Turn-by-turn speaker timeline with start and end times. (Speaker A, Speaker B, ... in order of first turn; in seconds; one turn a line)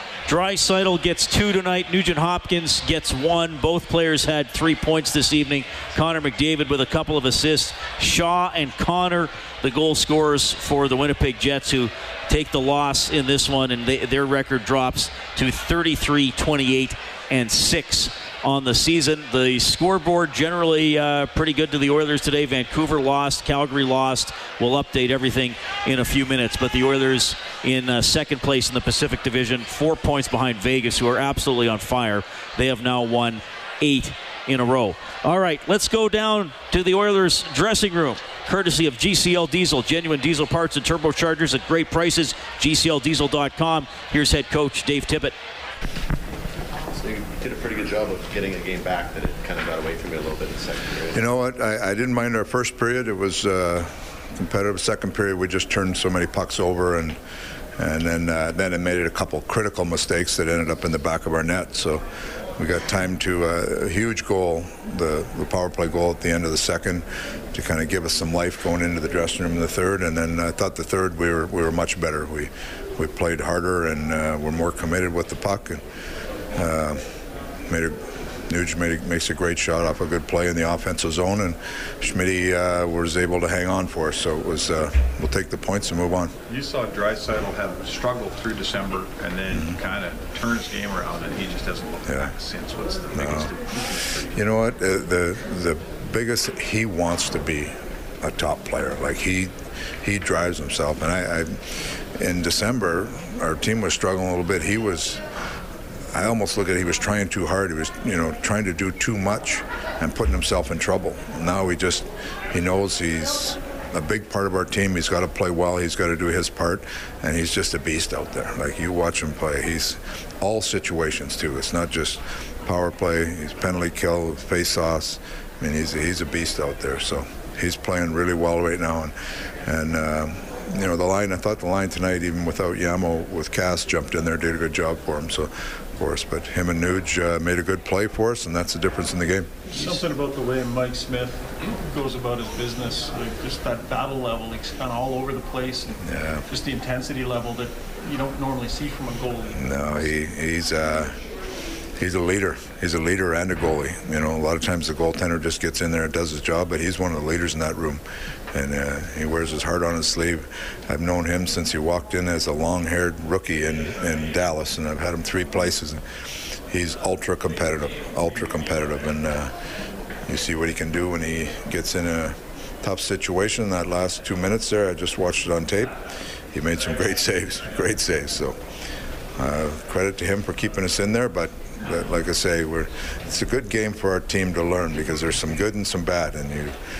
Speaker A: 0.3-45.3
Speaker B: 46.9-51.3
Speaker C: 51.1-57.2
Speaker C: 57.8-62.0
Speaker C: 62.6-75.8
Speaker C: 76.5-77.0
Speaker C: 77.7-86.3
Speaker D: 86.5-94.4
Speaker C: 89.5-89.8
Speaker C: 92.1-92.3
Speaker C: 93.1-93.5
Speaker C: 94.3-101.6
Speaker C: 102.2-105.2
Speaker C: 106.1-129.1
Speaker C: 129.7-139.5
Speaker E: 139.7-146.0
Speaker C: 146.0-146.4
Speaker E: 146.5-150.1
Speaker C: 149.6-151.2
Speaker C: 152.0-158.0
Speaker C: 158.5-166.0
Speaker C: 166.7-169.5
Speaker C: 170.3-176.0
Speaker C: 176.5-178.6
Speaker C: 179.4-186.7